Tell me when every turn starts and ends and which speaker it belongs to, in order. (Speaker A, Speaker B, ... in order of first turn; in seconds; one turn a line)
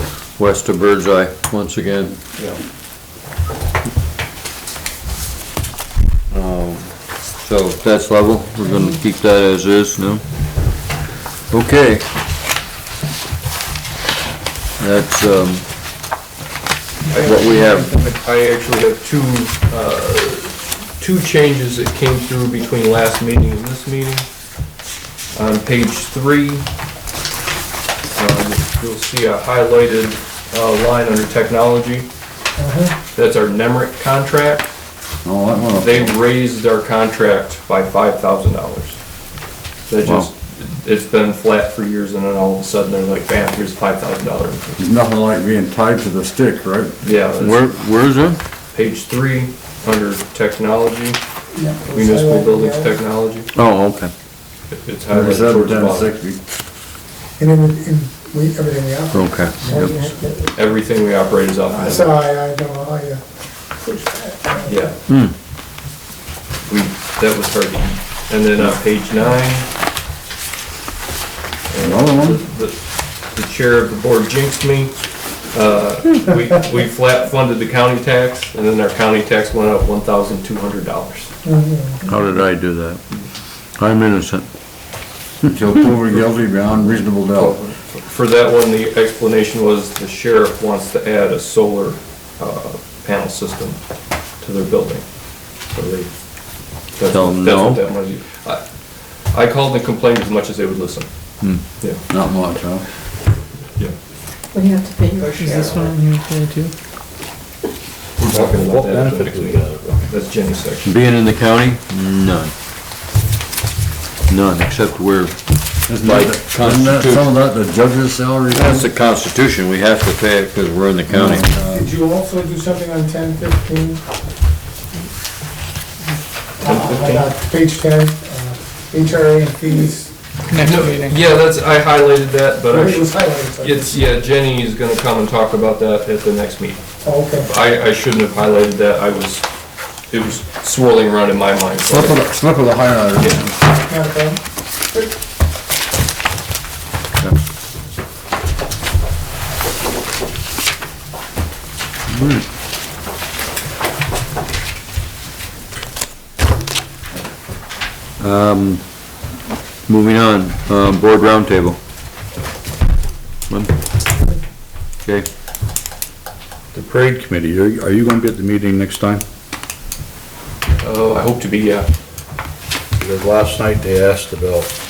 Speaker A: 0.4-2.2
Speaker A: 6.3-10.2
Speaker A: 11.5-12.1
Speaker A: 14.8-15.7
Speaker B: 17.1-24.3
Speaker A: 17.1-17.9
Speaker B: 25.3-26.6
Speaker B: 28.1-32.1
Speaker C: 32.6-33.0
Speaker B: 33.1-34.7
Speaker D: 35.2-36.1
Speaker B: 35.7-39.0
Speaker B: 39.9-44.8
Speaker A: 40.0-40.3
Speaker D: 44.8-47.0
Speaker B: 47.0-47.7
Speaker A: 47.4-48.4
Speaker B: 48.7-51.2
Speaker C: 51.5-53.0
Speaker B: 51.9-53.5
Speaker A: 53.5-54.1
Speaker B: 54.7-56.1
Speaker D: 55.1-56.4
Speaker C: 57.4-60.7
Speaker A: 59.1-59.9
Speaker B: 59.9-62.2
Speaker C: 61.7-63.2
Speaker C: 63.8-64.8
Speaker B: 64.7-65.0
Speaker A: 65.0-65.3
Speaker B: 66.7-69.7
Speaker B: 71.7-75.0
Speaker D: 71.8-72.4
Speaker B: 75.5-81.3
Speaker C: 81.4-82.1
Speaker A: 82.1-83.0
Speaker A: 83.8-84.5
Speaker D: 85.4-87.6
Speaker B: 87.2-93.8
Speaker B: 94.4-95.0
Speaker B: 95.6-96.1
Speaker B: 96.9-98.6
Speaker A: 97.1-97.8
Speaker B: 99.3-101.1
Speaker D: 102.1-102.8
Speaker E: 104.5-106.7
Speaker B: 105.4-105.9
Speaker B: 108.2-110.9
Speaker F: 108.3-110.0
Speaker A: 110.8-112.5
Speaker A: 114.3-117.3
Speaker D: 115.9-118.9
Speaker A: 118.5-121.5
Speaker D: 121.1-121.9
Speaker C: 121.4-124.0
Speaker C: 126.6-130.1
Speaker B: 126.6-127.3
Speaker E: 130.5-131.2
Speaker B: 130.6-139.4
Speaker C: 132.7-134.0
Speaker C: 137.0-137.5
Speaker B: 140.1-142.2
Speaker D: 141.9-143.5
Speaker B: 143.2-143.4
Speaker C: 143.8-144.4
Speaker A: 152.1-152.4
Speaker A: 158.2-159.1
Speaker A: 159.9-161.8
Speaker F: 166.7-169.2
Speaker B: 170.8-171.9
Speaker F: 173.0-174.7